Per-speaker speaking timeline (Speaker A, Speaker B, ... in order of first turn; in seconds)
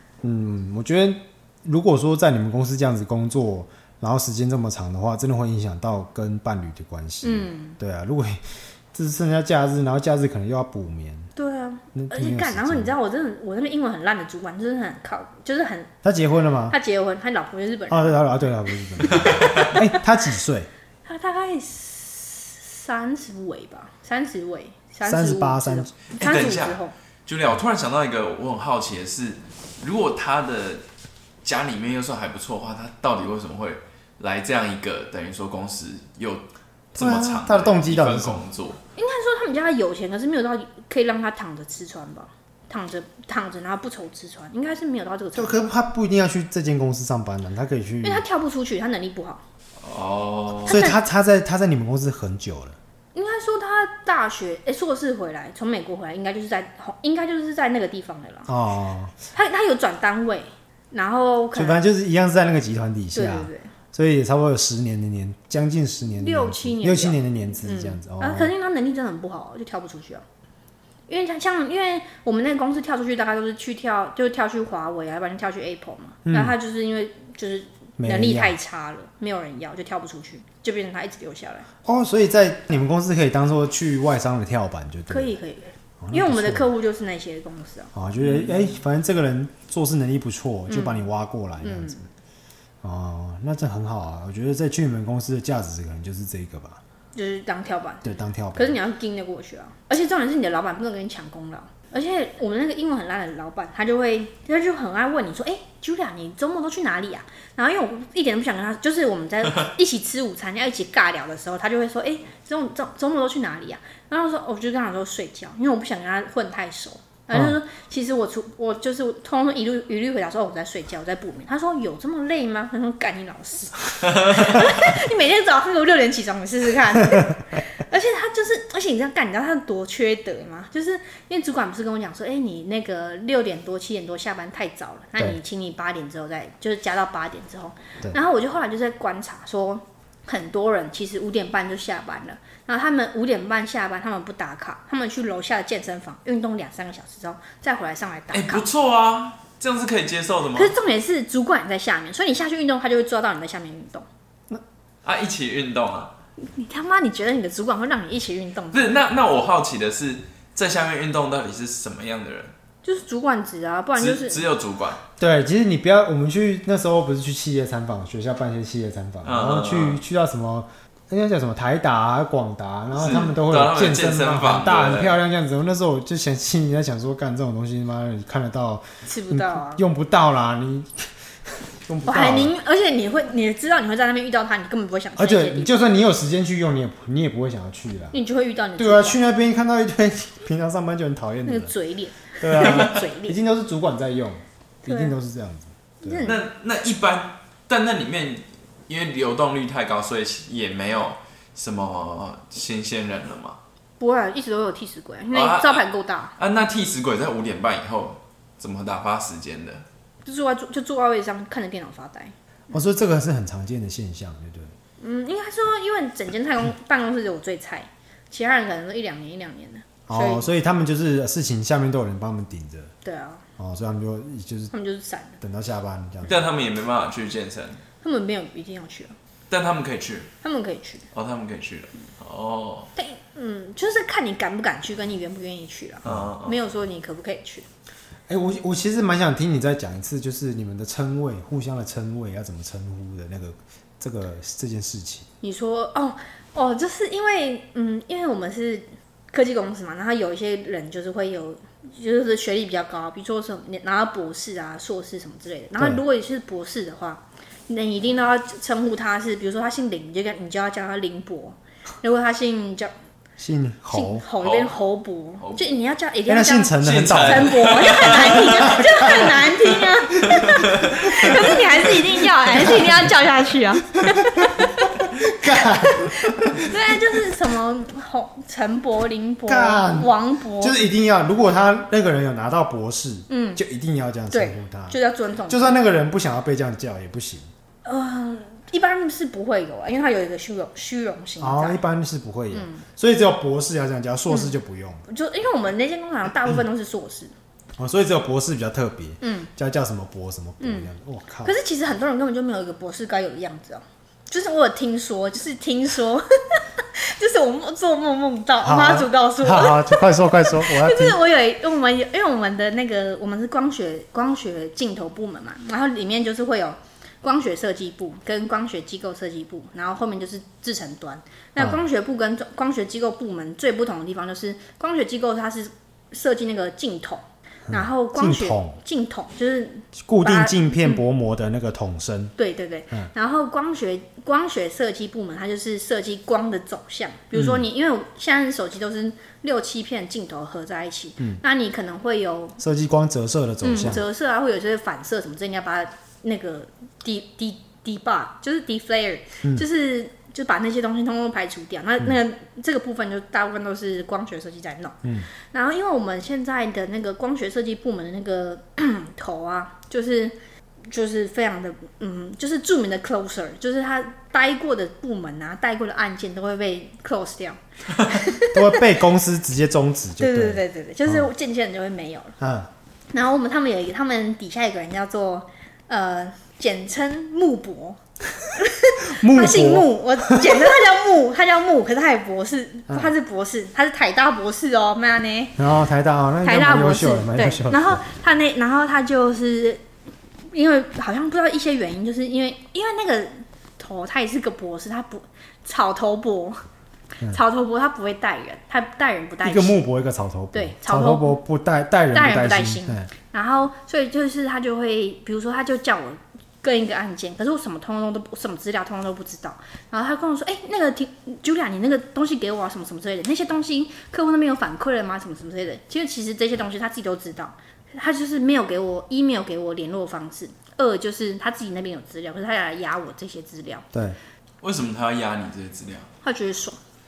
Speaker A: 0.2-11.3, 11.9-12.9, 16.0-16.8, 17.9-20.7, 25.1-25.9, 37.0-38.4, 45.3-48.2, 50.7-52.8, 58.5-59.1, 61.5-68.5, 76.2-76.5, 78.0-78.5, 81.8-85.3, 86.0-86.7, 87.9-92.1, 92.8-96.8, 98.0-98.8, 117.3-117.6, 165.2-181.1, 181.6-182.5, 185.2-188.2, 188.8-191.7, 192.4-196.3, 212.7-214.7, 220.1-222.9, 223.6-224.7, 225.4-226.4, 238.3-245.3, 263.4-264.3, 266.2-269.6, 271.2-271.7, 272.4-273.1, 274.0-276.7, 279.5-287.5, 291.4-295.0, 297.8-301.5, 308.6-311.2, 327.7-328.8, 329.9-332.3, 337.3-337.6, 342.6-344.0, 368.5-371.3, 372.4-372.7, 379.1-380.7, 385.6-388.0, 399.4-403.1, 423.9-424.2
Speaker B: 7.2-7.8, 11.3-15.9, 16.7-19.9, 21.0-26.9, 39.0-45.6, 48.0-49.4, 50.7-51.0, 53.1-58.5, 59.3-61.8, 63.1-63.7, 66.2-70.2, 71.1-81.7, 85.1-87.9, 90.7-91.0, 91.6-92.0, 97.1-148.7, 150.5-154.1, 156.4-158.9, 162.8-164.4, 179.1-179.8, 182.1-185.9, 188.1-189.2, 191.4-193.4, 194.9-195.2, 196.0-196.4, 204.0-206.3, 210.2-212.3, 215.0-220.5, 223.0-223.4, 224.7-225.4, 228.0-229.1, 230.4-231.1, 232.9-237.7, 245.4-262.9, 263.9-274.9, 275.5-280.8, 283.3-283.6, 284.3-285.8, 287.8-291.8, 292.5-292.8, 294.3-294.6, 295.1-297.3, 299.2-299.5, 300.6-300.9, 301.4-331.0, 332.4-342.6, 343.6-360.3, 360.9-368.8, 370.2-372.4, 373.1-378.0, 378.5-385.6, 386.4-389.8, 390.5-396.6, 397.2-399.8, 400.5-401.3, 402.1-423.9, 426.2-426.8
Speaker C: 26.1-30.8, 31.4-38.8, 49.8-50.8, 88.2-88.7, 148.3-150.7, 155.0-156.1, 158.7-162.5, 164.0-165.0, 169.2-170.0, 172.9-175.2, 196.2-203.6, 205.3-205.8, 206.4-209.8, 226.2-227.8, 229.5-230.3, 231.1-232.9, 236.0-236.5, 264.4-264.7, 266.8-268.8, 270.3-271.2, 424.6-426.1